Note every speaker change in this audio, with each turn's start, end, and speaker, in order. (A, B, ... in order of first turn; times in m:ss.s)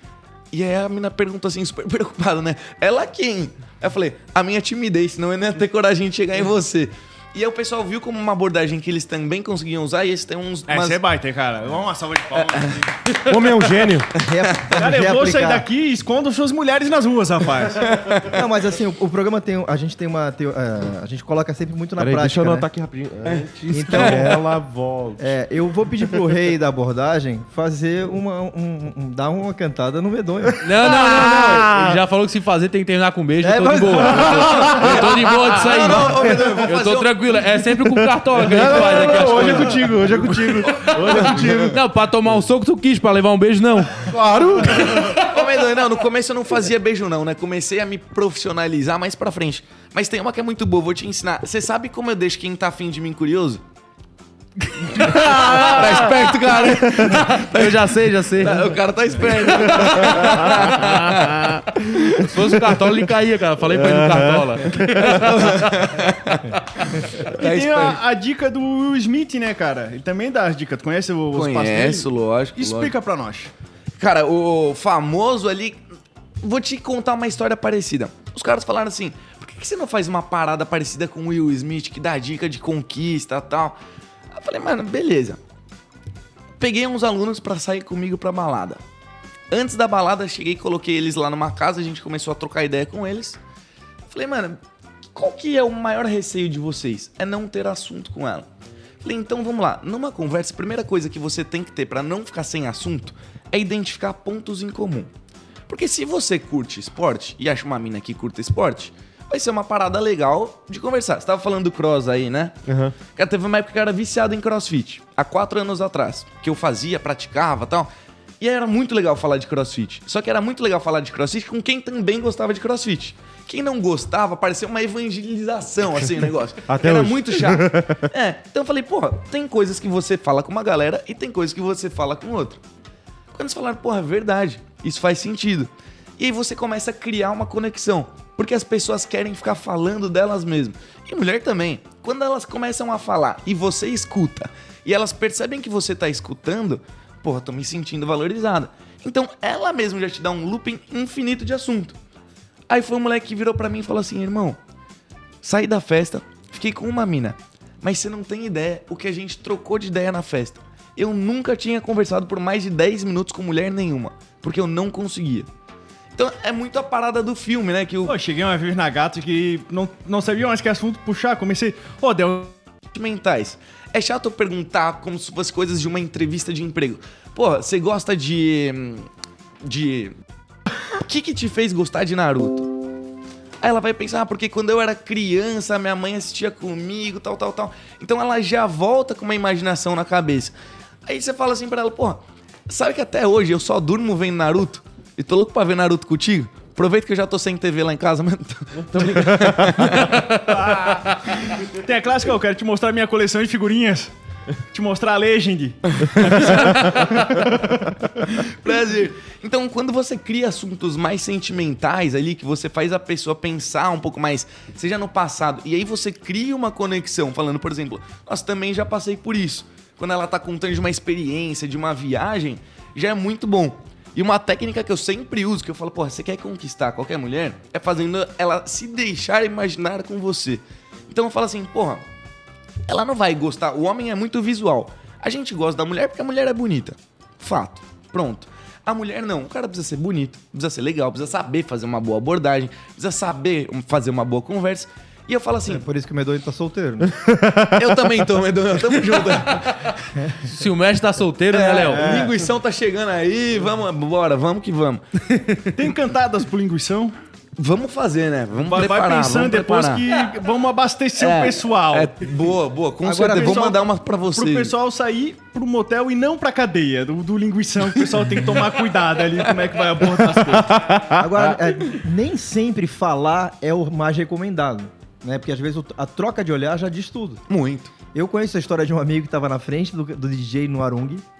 0:00.5-0:11.0 A
0:10.7-0:13.1 B
0:13.2-0:14.2 C
0:14.1-0:15.6 D
0:14.3-0:14.7 A
0:14.8-0:17.9 B
0:17.9-0:18.3 A
0:18.3-0:22.6 D
0:22.0-0:25.3 C
0:23.7-0:24.5 D
0:23.9-0:24.2 A
0:25.2-0:30.6 D
0:30.6-0:39.9 E
0:30.8-0:32.0 C
0:33.4-0:34.7 D
0:34.1-0:35.2 C
0:35.6-0:37.5 A
0:37.7-0:41.8 C
0:39.2-0:39.8 A
0:40.4-0:41.6 A
0:40.4-0:44.2 E
0:44.0-0:45.2 C
0:44.8-0:53.6 A
0:44.8-0:45.2 E
0:54.6-0:58.7 E
0:55.0-1:02.2 A
0:59.5-1:01.0 E
1:00.0-1:01.6 C
1:02.2-1:05.6 E
1:03.7-1:05.4 C
1:05.0-1:08.0 A
1:07.2-1:13.5 B
1:11.3-1:12.9 A
1:14.0-1:15.8 A
1:16.4-1:23.8 A
1:24.4-1:25.4 A
1:26.6-1:28.8 A
1:29.5-1:33.4 A
1:34.1-1:34.6 A
1:35.1-1:38.5 A
1:39.0-1:45.1 A
1:45.7-1:57.9 A
1:52.7-1:53.0 C
1:58.4-2:12.6 A
2:06.7-2:08.1 C
2:13.3-2:32.0 A
2:32.7-2:34.6 A
2:35.4-2:45.5 A
2:46.2-2:48.2 A
2:48.0-2:52.5 B
2:52.9-2:59.1 A
2:59.6-3:00.1 A
3:01.0-3:02.7 A
3:03.6-3:10.5 A
3:11.0-3:20.6 A
3:18.8-3:20.1 C
3:20.5-3:24.1 B
3:24.7-3:26.5 B
3:26.2-3:27.1 A
3:28.2-3:52.0 A
3:52.9-4:05.8 A
4:05.7-4:07.2 D
4:07.1-4:07.8 C
4:07.7-4:10.4 A
4:10.4-4:12.2 E
4:11.5-4:15.0 A
4:11.9-4:12.4 B
4:15.3-4:15.6 E
4:15.7-4:17.1 B
4:17.6-4:20.1 A
4:18.6-4:22.1 B
4:21.2-4:24.7 A
4:23.0-4:23.8 D
4:23.3-4:23.8 B
4:24.3-4:30.8 B
4:30.7-4:31.2 C
4:31.2-4:37.4 D
4:37.5-4:37.9 A
4:38.1-4:41.2 D